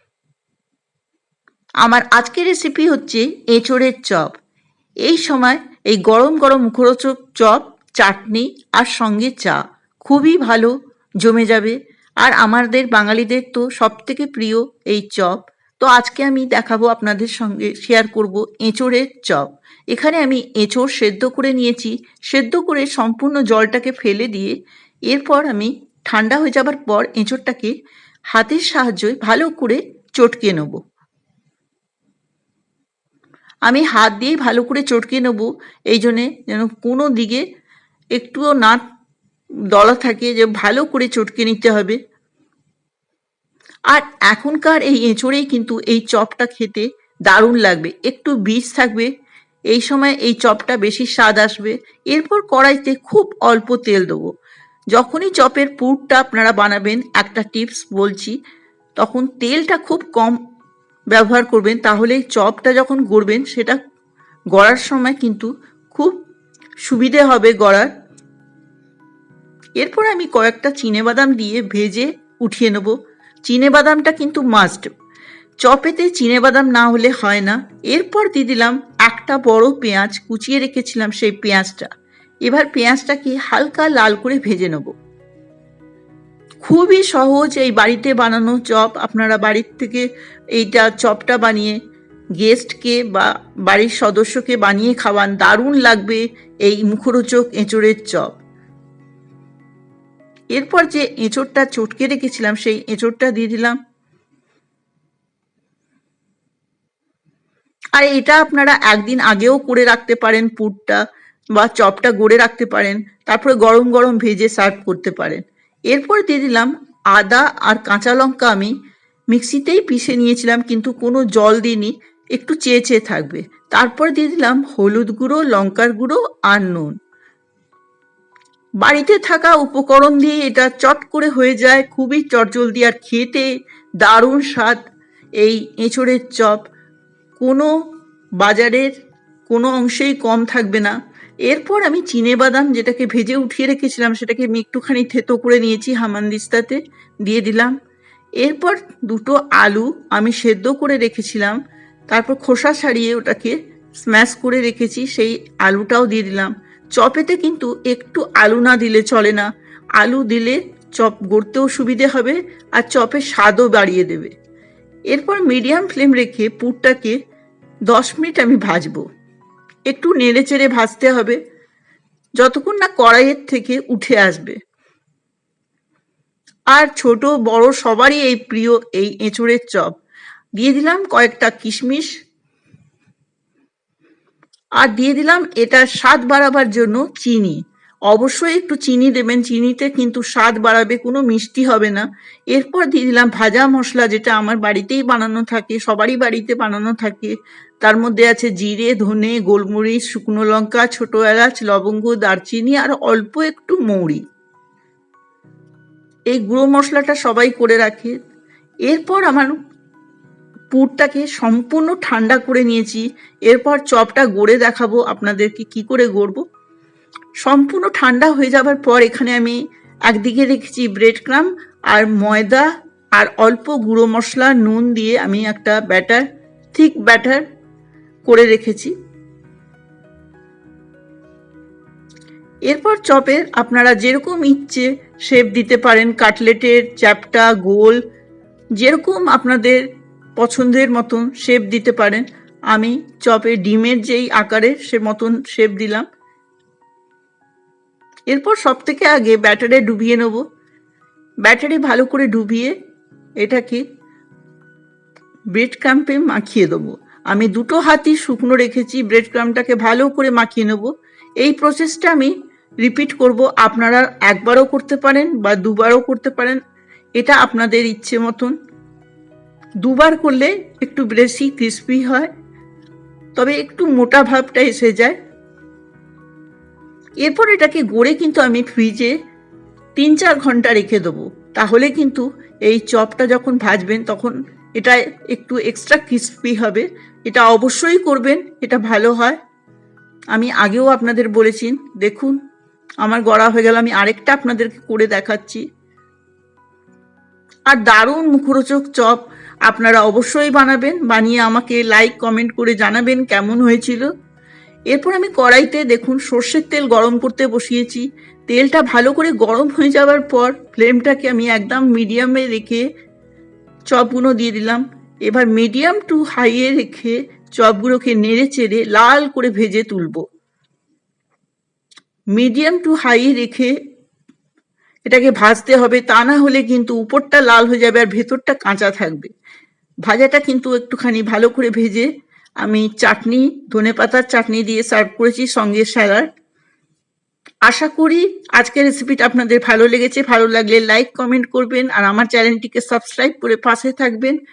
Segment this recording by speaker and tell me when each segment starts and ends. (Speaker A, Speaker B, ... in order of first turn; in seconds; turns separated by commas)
Speaker A: 1.8-4.3, Speaker A: 5.0-24.5, Speaker A: 25.1-27.7, Speaker A: 28.3-30.8, Speaker A: 33.6-37.4, Speaker A: 38.1-38.8, Speaker A: 39.7-42.0, Speaker A: 43.9-49.1, Speaker A: 49.7-54.3, Speaker A: 54.9-58.4, Speaker A: 59.0-60.4, Speaker A: 61.1-63.8, Speaker A: 64.5-66.2, Speaker A: 66.8-67.9, Speaker A: 69.8-72.9, Speaker A: 73.5-74.9, Speaker A: 75.6-81.9, Speaker A: 82.4-84.9, Speaker A: 86.6-91.8, Speaker A: 92.4-98.4, Speaker A: 100.5-103.8, Speaker A: 107.9-111.0, Speaker A: 111.5-118.7, Speaker A: 119.3-126.9, Speaker A: 128.8-133.5, Speaker A: 134.0-134.8, Speaker A: 135.4-136.6, Speaker A: 137.4-137.7, Speaker A: 138.4-138.9, Speaker A: 139.5-140.9, Speaker A: 141.5-147.7, Speaker A: 148.4-151.6, Speaker A: 152.1-159.5, Speaker A: 160.0-164.3, Speaker A: 165.1-167.2, Speaker A: 167.9-169.0, Speaker A: 169.9-171.4, Speaker A: 172.4-174.6, Speaker A: 176.7-179.9, Speaker A: 180.6-182.1, Speaker A: 184.8-204.2, Speaker A: 206.3-208.1, Speaker A: 208.8-209.6, Speaker A: 210.7-216.4, Speaker A: 217.4-227.4, Speaker A: 228.3-228.9, Speaker A: 232.7-238.0, Speaker A: 238.8-246.1, Speaker A: 248.3-250.4, Speaker A: 251.4-252.7, Speaker A: 253.4-253.8, Speaker A: 255.5-266.6, Speaker A: 267.2-268.5, Speaker A: 269.8-272.3, Speaker A: 273.4-275.1, Speaker A: 277.2-279.1, Speaker A: 279.9-289.4, Speaker A: 290.3-292.4, Speaker A: 293.0-295.6, Speaker A: 297.7-304.1, Speaker A: 304.9-312.8, Speaker A: 313.9-320.2, Speaker A: 322.3-323.7, Speaker A: 325.1-329.3, Speaker A: 330.1-332.1, Speaker A: 332.6-336.3, Speaker A: 337.6-344.4